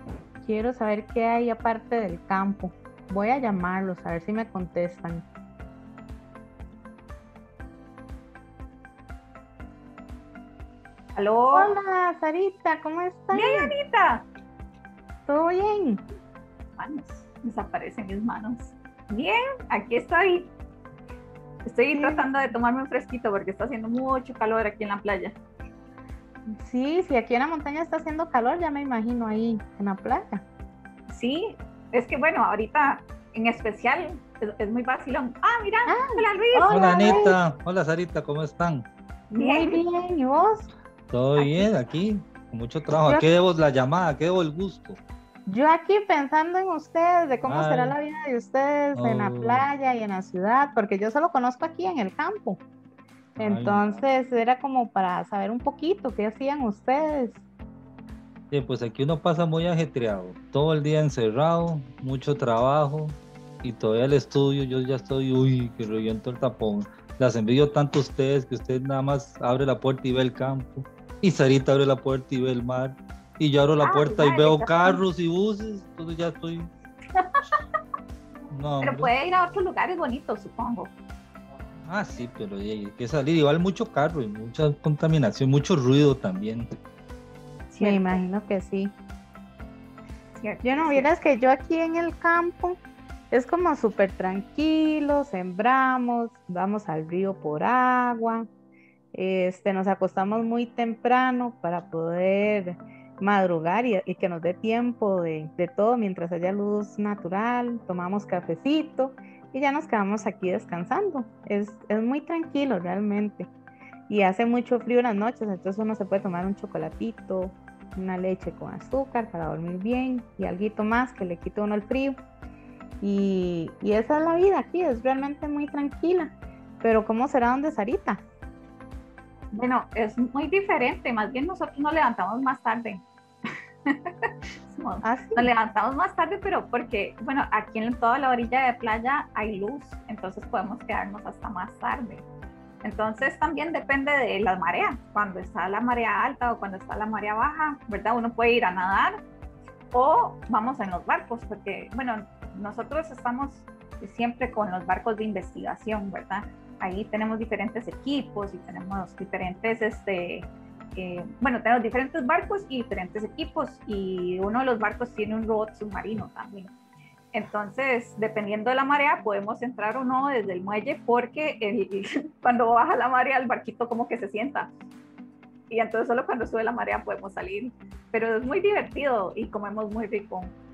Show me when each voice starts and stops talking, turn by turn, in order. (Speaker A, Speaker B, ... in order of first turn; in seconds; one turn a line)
Speaker A: 0.4-5.3
Speaker B: 11.2-11.8
Speaker A: 11.5-13.7
Speaker B: 13.3-14.2
Speaker A: 15.3-16.0
Speaker B: 16.8-20.5
Speaker B: 21.6-25.4
Speaker A: 21.9-22.3
Speaker A: 26.5-30.4
Speaker B: 31.1-37.3
Speaker A: 35.9-37.4
Speaker C: 36.7-38.9
Speaker B: 39.3-39.8
Speaker A: 39.4-40.7
Speaker C: 41.1-45.0
Speaker B: 41.4-41.7
Speaker A: 45.5-52.6
Speaker C: 47.5-48.0
Speaker C: 49.0-49.7
Speaker C: 53.4-53.9
Speaker A: 53.4-57.4
Speaker C: 58.5-76.7
Speaker B: 73.8-75.0
Speaker B: 77.2-77.6
Speaker C: 78.5-79.1
Speaker B: 78.8-80.9
Speaker C: 81.9-86.7
Speaker B: 87.7-88.2
Speaker A: 87.8-89.0
Speaker B: 90.4-91.1
Speaker A: 90.6-92.8
Speaker A: 93.3-98.5
Speaker A: 99.1-113.5
Speaker A: 114.1-122.2
Speaker A: 123.0-128.2
Speaker B: 129.5-133.1
Speaker B: 133.9-142.2
Speaker A: 135.0-135.5
Speaker B: 142.8-149.2
Speaker B: 149.9-166.7
Speaker B: 167.3-174.7
Speaker B: 175.7-180.6